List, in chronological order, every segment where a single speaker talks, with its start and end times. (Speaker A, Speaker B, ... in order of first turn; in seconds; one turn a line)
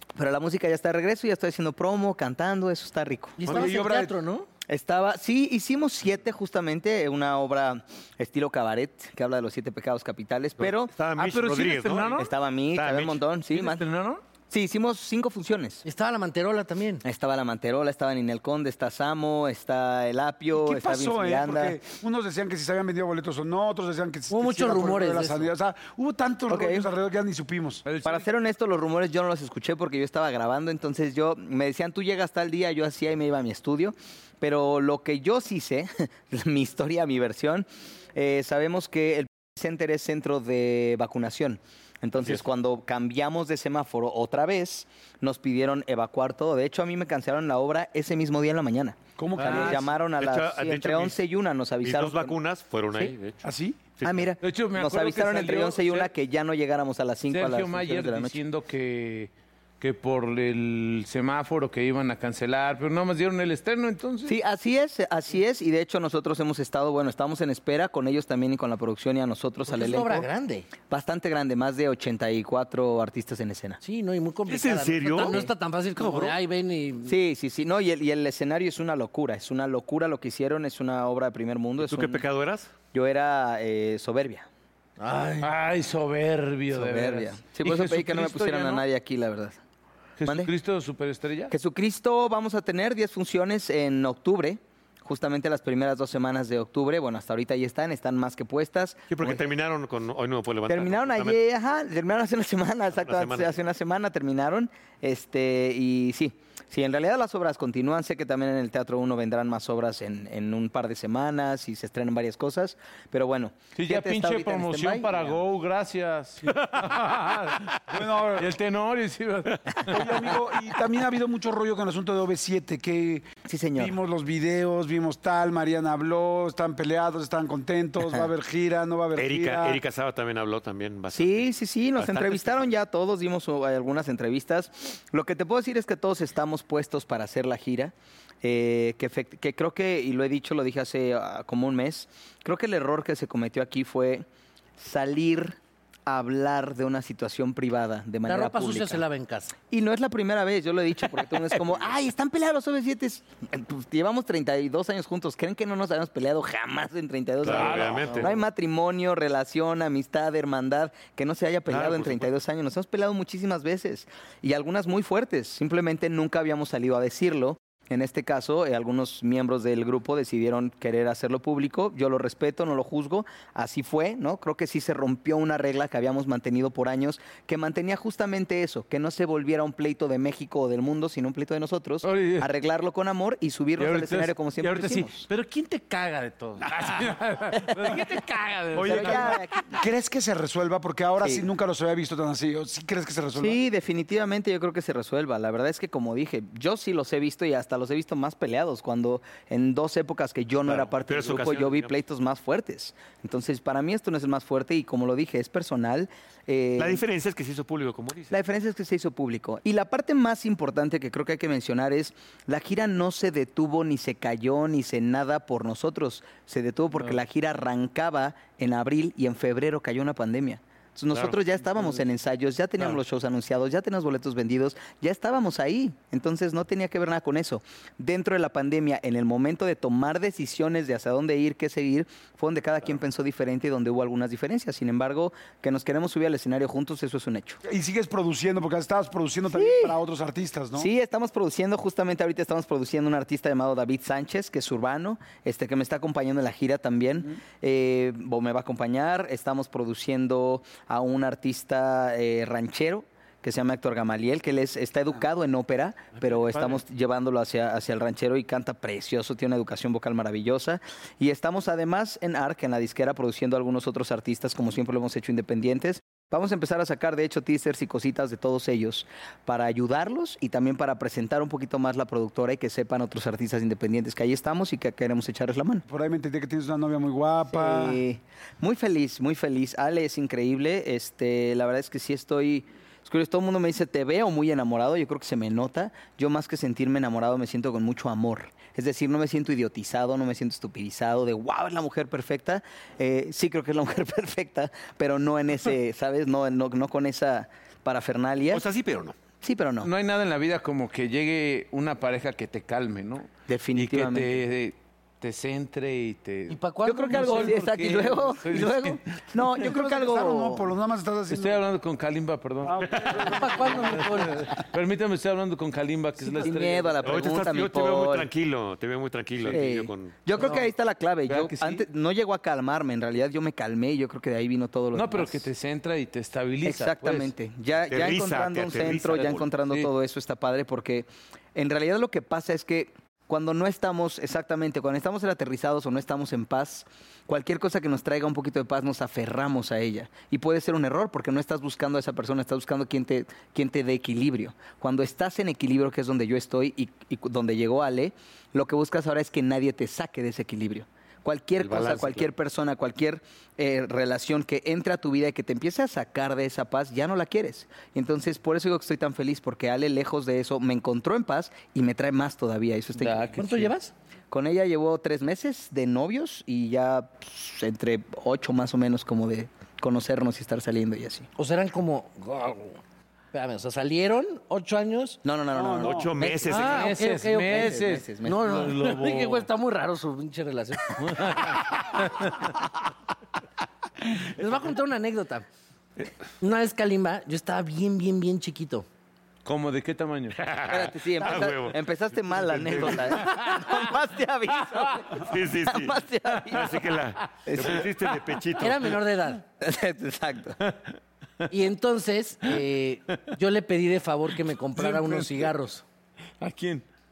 Speaker A: 0.2-3.6
Speaker B: 3.4-4.5
Speaker C: 3.5-4.1
Speaker A: 4.7-10.9
Speaker D: 10.6-12.2
Speaker E: 11.2-12.3
Speaker A: 12.2-13.9
Speaker D: 12.7-13.2
Speaker E: 13.5-14.2
Speaker A: 14.5-15.8
Speaker B: 15.8-17.0
Speaker A: 17.0-21.8
Speaker C: 20.5-27.8
Speaker B: 24.3-25.5
Speaker A: 26.5-26.9
Speaker E: 27.9-28.3
Speaker A: 28.0-52.4
Speaker C: 49.2-49.9
Speaker E: 49.4-49.9
Speaker D: 50.2-51.2
Speaker D: 51.8-53.4
Speaker C: 53.4-53.8
Speaker D: 54.0-54.3
Speaker A: 54.0-58.4
Speaker E: 54.4-56.1
Speaker E: 57.3-64.4
Speaker A: 64.3-70.3
Speaker B: 69.7-70.7
Speaker A: 70.8-73.8
Speaker B: 73.8-77.2
Speaker D: 74.5-76.4
Speaker A: 77.1-82.2
Speaker D: 81.8-82.7
Speaker A: 82.9-84.5
Speaker B: 85.0-85.5
Speaker E: 85.4-88.8
Speaker A: 86.7-89.6
Speaker E: 90.2-91.5
Speaker A: 90.3-90.5
Speaker A: 91.5-99.5
Speaker D: 99.1-101.4
Speaker A: 100.7-115.4
Speaker D: 102.9-103.6
Speaker E: 113.7-120.2
Speaker C: 117.9-118.5
Speaker C: 119.9-129.8
Speaker A: 123.5-124.0
Speaker D: 129.2-132.7
Speaker A: 131.1-144.3
Speaker A: 144.8-149.0
Speaker B: 148.3-149.6
Speaker A: 149.7-185.3
Speaker D: 157.4-158.4
Speaker E: 157.4-158.4
Speaker D: 161.7-162.4
Speaker E: 182.0-182.5
Speaker E: 183.8-189.4
Speaker C: 188.7-193.6
Speaker A: 188.8-189.8
Speaker A: 191.2-191.5
Speaker A: 193.4-207.0
Speaker D: 200.6-202.0
Speaker D: 206.8-208.4
Speaker A: 208.3-237.6
Speaker D: 221.1-221.4
Speaker C: 237.6-240.9
Speaker A: 239.5-240.0
Speaker A: 240.8-275.9
Speaker C: 275.9-278.0
Speaker A: 277.5-298.6
Speaker D: 298.5-299.1
Speaker A: 299.4-299.9
Speaker E: 299.8-309.6
Speaker A: 303.5-304.4
Speaker B: 306.5-307.7
Speaker A: 306.9-310.7
Speaker C: 309.6-311.6
Speaker E: 311.3-317.2
Speaker C: 312.6-313.8
Speaker D: 312.9-313.2
Speaker B: 313.3-314.5
Speaker B: 316.2-316.6
Speaker A: 316.4-318.3
Speaker D: 317.0-320.2
Speaker A: 319.5-325.5
Speaker E: 320.4-320.7
Speaker E: 321.3-321.8
Speaker E: 324.9-327.3
Speaker A: 326.6-363.7
Speaker D: 327.9-329.5
Speaker E: 329.6-329.9
Speaker D: 351.6-352.3
Speaker B: 363.0-363.9
Speaker E: 363.0-363.5
Speaker A: 364.3-371.3
Speaker B: 371.4-372.8
Speaker B: 373.3-375.2
Speaker A: 375.2-376.9
Speaker C: 375.5-376.1
Speaker D: 375.8-376.9
Speaker E: 376.5-379.5
Speaker B: 376.5-381.6
Speaker A: 377.5-378.5
Speaker E: 381.0-382.3
Speaker B: 384.3-385.5
Speaker B: 386.4-388.9
Speaker E: 389.4-390.4
Speaker D: 390.4-393.2
Speaker A: 390.7-396.9
Speaker E: 392.9-393.9
Speaker E: 394.6-395.1
Speaker D: 395.2-399.0
Speaker A: 397.5-397.8
Speaker B: 398.6-399.4
Speaker A: 399.6-400.6
Speaker E: 400.6-401.5
Speaker B: 401.5-405.8
Speaker E: 404.8-405.5
Speaker E: 406.4-406.9